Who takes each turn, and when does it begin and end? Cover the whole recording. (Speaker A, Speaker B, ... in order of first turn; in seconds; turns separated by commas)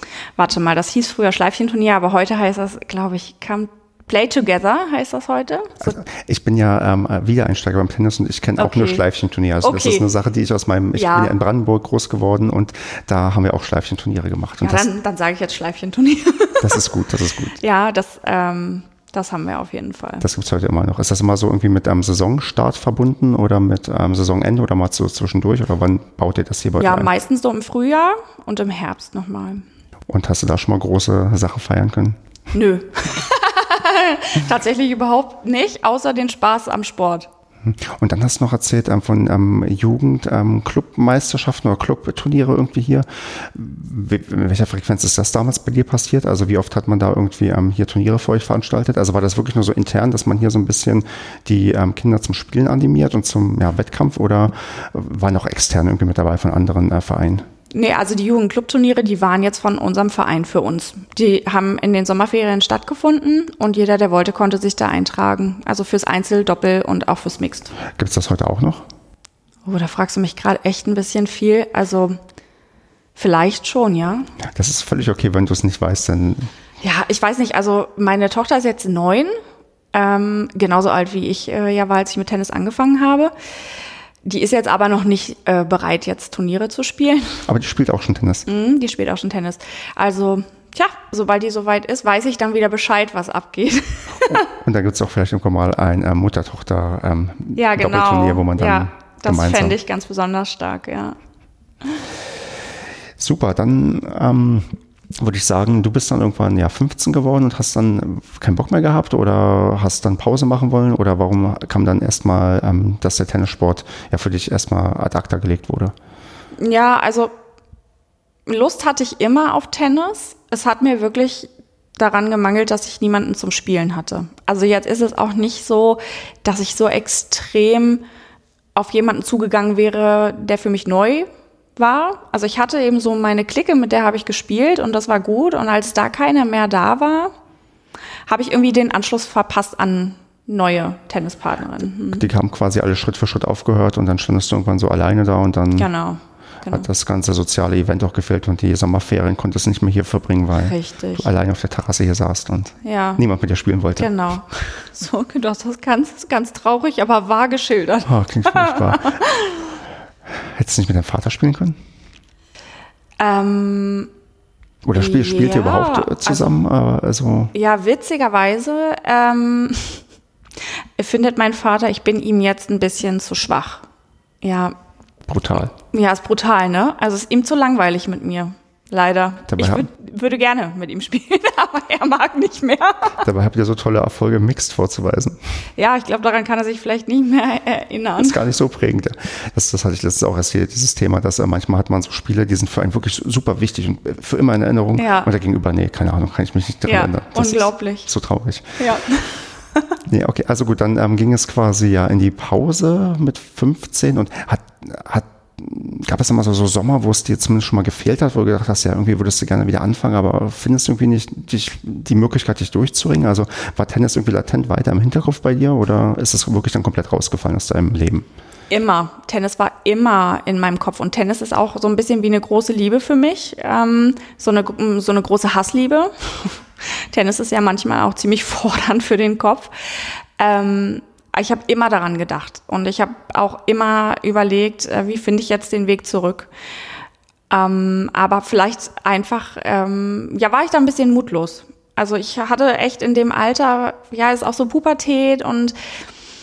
Speaker A: 0.4-6.0, Speaker B: 5.8-14.9, Speaker A: 8.6-9.0, Speaker A: 9.6-10.0, Speaker A: 10.9-11.3, Speaker A: 14.6-16.8, Speaker B: 16.6-17.6, Speaker A: 17.6-20.2, Speaker B: 20.2-27.1, Speaker A: 26.8-29.6, Speaker B: 30.1-32.2, Speaker A: 32.5-37.3, Speaker B: 37.6-57.5, Speaker A: 57.7-67.7, Speaker B: 67.9-68.8, Speaker A: 69.7-72.2, Speaker A: 73.2-74.3, Speaker B: 74.4-76.5, Speaker A: 76.8-79.3, Speaker A: 79.9-83.3, Speaker A: 84.2-87.4, Speaker B: 87.5-88.5, Speaker A: 88.5-94.4, Speaker B: 94.3-99.8, Speaker A: 97.5-101.2, Speaker B: 103.2-115.9, Speaker A: 116.6-117.3, Speaker A: 118.5-128.0, Speaker A: 128.7-137.3, Speaker A: 138.3-142.2, Speaker B: 142.1-145.9, Speaker A: 145.8-146.8, Speaker B: 146.7-154.1, Speaker A: 150.6-151.3, Speaker A: 152.8-153.2, Speaker A: 154.0-159.6, Speaker B: 158.1-159.2, Speaker B: 160.3-161.8, Speaker A: 163.2-164.1, Speaker B: 164.8-167.5, Speaker A: 164.9-166.6, Speaker A: 167.5-170.0, Speaker A: 171.0-173.8, Speaker A: 174.4-174.8, Speaker B: 175.3-175.7, Speaker A: 175.9-183.2, Speaker B: 179.5-179.8, Speaker B: 183.2-185.4, Speaker A: 185.8-188.4, Speaker B: 188.2-198.8, Speaker A: 195.0-195.3, Speaker A: 196.8-198.1, Speaker A: 198.8-199.9, Speaker B: 200.1-218.2, Speaker A: 218.7-226.6, Speaker A: 227.1-236.5, Speaker A: 237.5-245.8